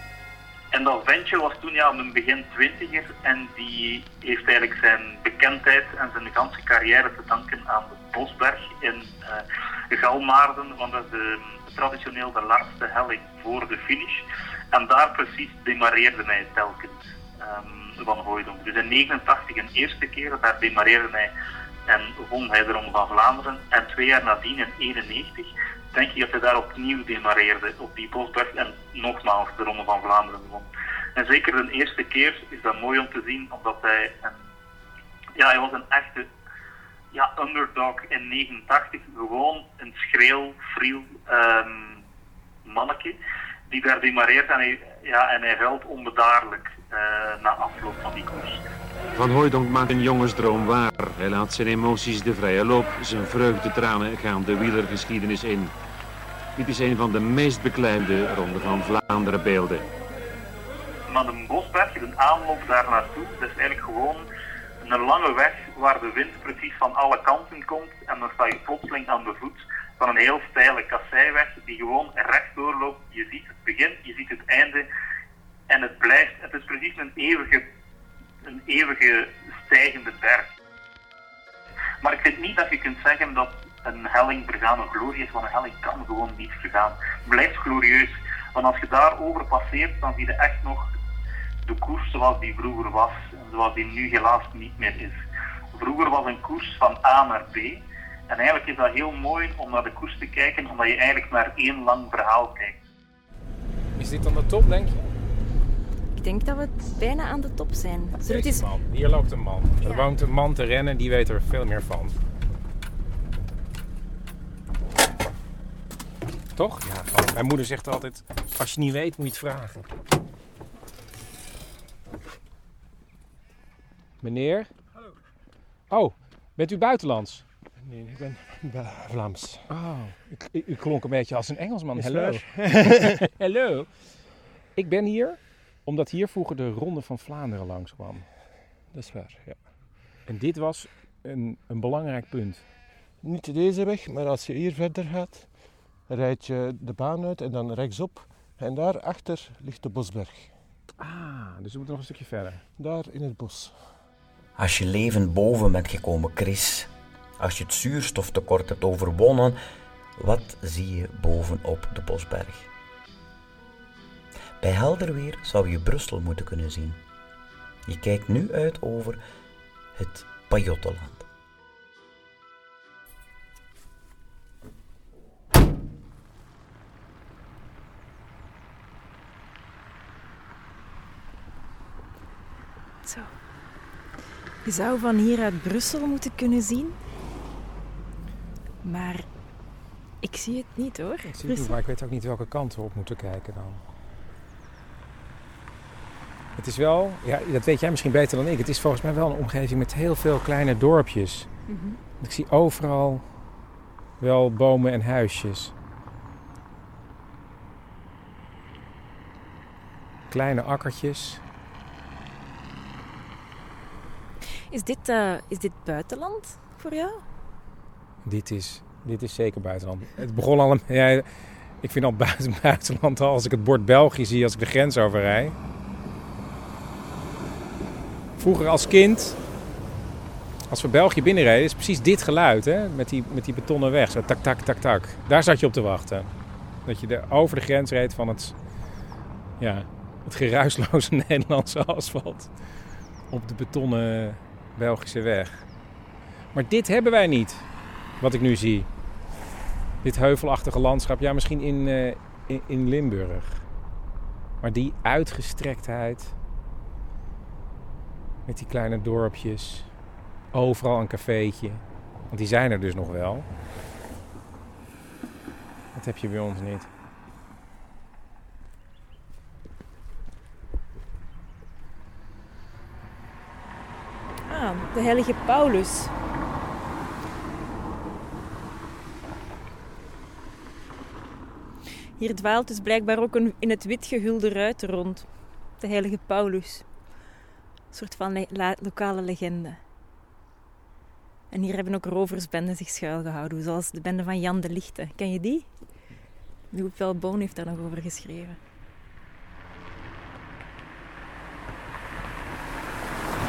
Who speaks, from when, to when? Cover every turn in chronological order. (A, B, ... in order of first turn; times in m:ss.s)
0:00.7-0:21.3 A
0:21.9-0:34.4 A
0:35.4-0:36.3 A
0:37.1-0:42.0 A
0:42.6-0:43.2 A
0:43.7-0:48.6 A
0:49.2-0:55.7 B
0:56.6-0:59.9 B
1:01.1-1:04.3 A
1:04.8-1:14.9 A
1:15.7-1:17.7 A
1:18.4-1:20.5 A
1:22.0-1:30.9 A
1:31.6-1:35.2 A
1:35.7-1:42.8 A
1:44.0-1:45.0 C
1:46.2-1:48.7 D
1:48.2-1:52.2 C
1:56.6-1:59.9 C
2:04.2-2:04.7 C
2:05.9-2:07.4 C
2:07.9-2:09.7 E
2:09.7-2:18.4 C
2:12.0-2:13.2 E
2:20.2-2:22.6 C
2:23.2-2:30.5 E
2:31.0-2:32.6 C
2:32.8-2:33.8 E
2:34.6-2:39.6 F
2:40.2-2:42.7 F
2:44.6-2:47.0 F
2:47.9-2:49.2 F
2:50.0-2:51.3 F
3:03.0-3:03.3 D
3:04.6-3:07.0 D
3:08.8-3:09.3 D
3:10.2-3:11.8 D
3:11.3-3:13.8 C
3:16.6-3:21.5 C
3:21.7-3:22.0 D
3:22.2-3:23.2 C
3:24.2-3:25.7 C
3:30.3-3:31.4 C
3:34.7-3:37.2 D
3:38.2-3:45.6 C
3:48.4-3:49.4 C
3:50.7-3:56.3 C
3:56.8-3:58.6 C
3:59.6-4:02.5 C
4:03.3-4:05.6 C
4:06.5-4:07.7 C
4:08.2-4:08.9 C
4:10.0-4:13.6 C
4:14.6-4:16.4 C
4:18.5-4:19.9 C
4:20.5-4:23.5 C
4:25.9-4:26.9 C
4:34.5-4:36.1 D
4:42.2-4:47.0 D
4:47.9-4:49.8 D
4:51.5-4:56.0 D
4:56.7-4:58.6 D